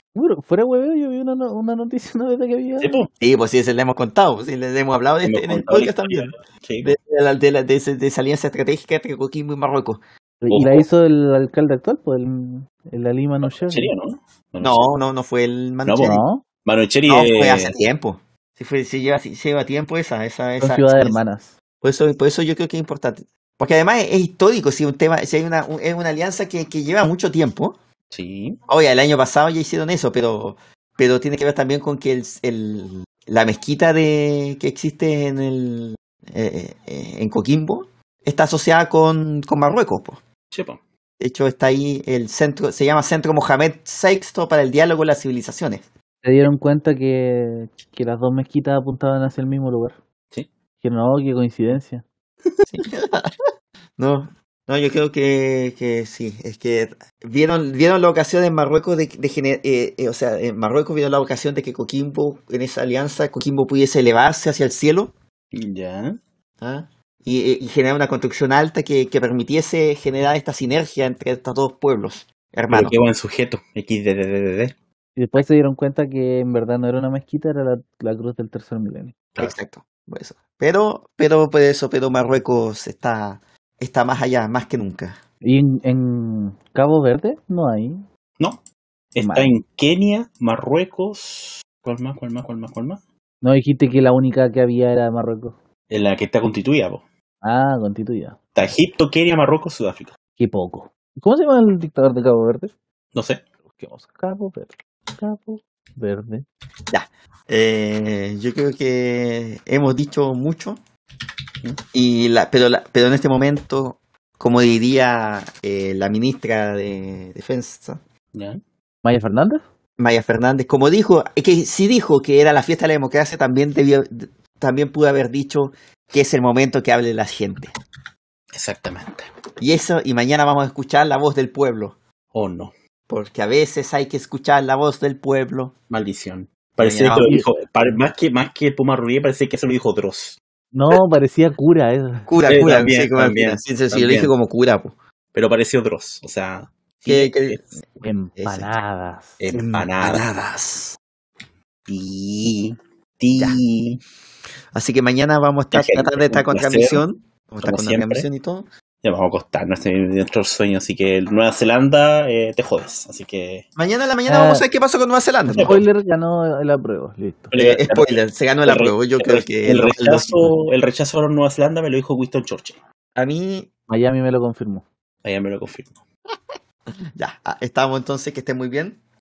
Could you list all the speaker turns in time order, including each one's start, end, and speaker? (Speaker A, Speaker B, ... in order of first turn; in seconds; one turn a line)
Speaker A: 0.1-3.0
Speaker B: 2.8-3.1
Speaker C: 3.2-10.0
Speaker B: 5.2-7.0
Speaker A: 10.4-13.9
Speaker B: 10.5-10.9
Speaker B: 13.4-14.9
Speaker C: 14.6-16.2
Speaker B: 15.9-17.8
Speaker A: 16.0-16.4
Speaker C: 17.1-21.2
Speaker A: 20.6-21.5
Speaker C: 21.8-27.8
Speaker B: 28.1-28.6
Speaker C: 28.7-40.2
Speaker B: 40.5-40.8
Speaker C: 41.2-45.9
Speaker A: 46.2-50.0
Speaker A: 50.8-52.0
Speaker C: 52.7-53.3
Speaker C: 54.0-65.1
Speaker B: 65.5-66.2
Speaker C: 66.6-73.0
Speaker B: 72.7-74.8
Speaker A: 75.2-79.2
Speaker C: 79.4-85.2
Speaker A: 85.4-88.1
Speaker B: 89.1-93.0
Speaker A: 89.2-89.5
Speaker A: 93.4-95.5
Speaker B: 95.9-97.0
Speaker A: 97.4-98.4
Speaker B: 98.5-100.1
Speaker A: 100.4-102.7
Speaker B: 103.2-103.4
Speaker A: 103.7-106.5
Speaker C: 106.9-110.8
Speaker C: 111.9-118.0
Speaker B: 118.3-118.6
Speaker A: 119.0-119.6
Speaker C: 120.0-127.7
Speaker B: 128.5-129.3
Speaker C: 129.6-132.0
Speaker B: 132.3-132.7
Speaker C: 133.1-135.7
Speaker B: 135.9-140.4
Speaker C: 136.8-137.3
Speaker A: 137.2-137.5
Speaker A: 140.7-142.3
Speaker C: 142.3-144.9
Speaker B: 142.5-144.3
Speaker B: 145.3-147.6
Speaker C: 147.1-148.7
Speaker A: 148.0-149.4
Speaker B: 149.4-150.3
Speaker C: 149.5-151.0
Speaker B: 151.9-153.6
Speaker C: 153.4-154.0
Speaker C: 154.7-158.7
Speaker B: 155.7-157.0
Speaker B: 157.6-158.3
Speaker B: 159.0-163.7
Speaker C: 163.8-165.8
Speaker A: 164.3-164.7
Speaker B: 165.5-165.9
Speaker A: 165.6-167.5
Speaker B: 167.5-172.8
Speaker C: 167.6-170.5
Speaker C: 173.2-173.7
Speaker A: 173.9-174.8
Speaker B: 175.2-176.0
Speaker C: 177.1-179.0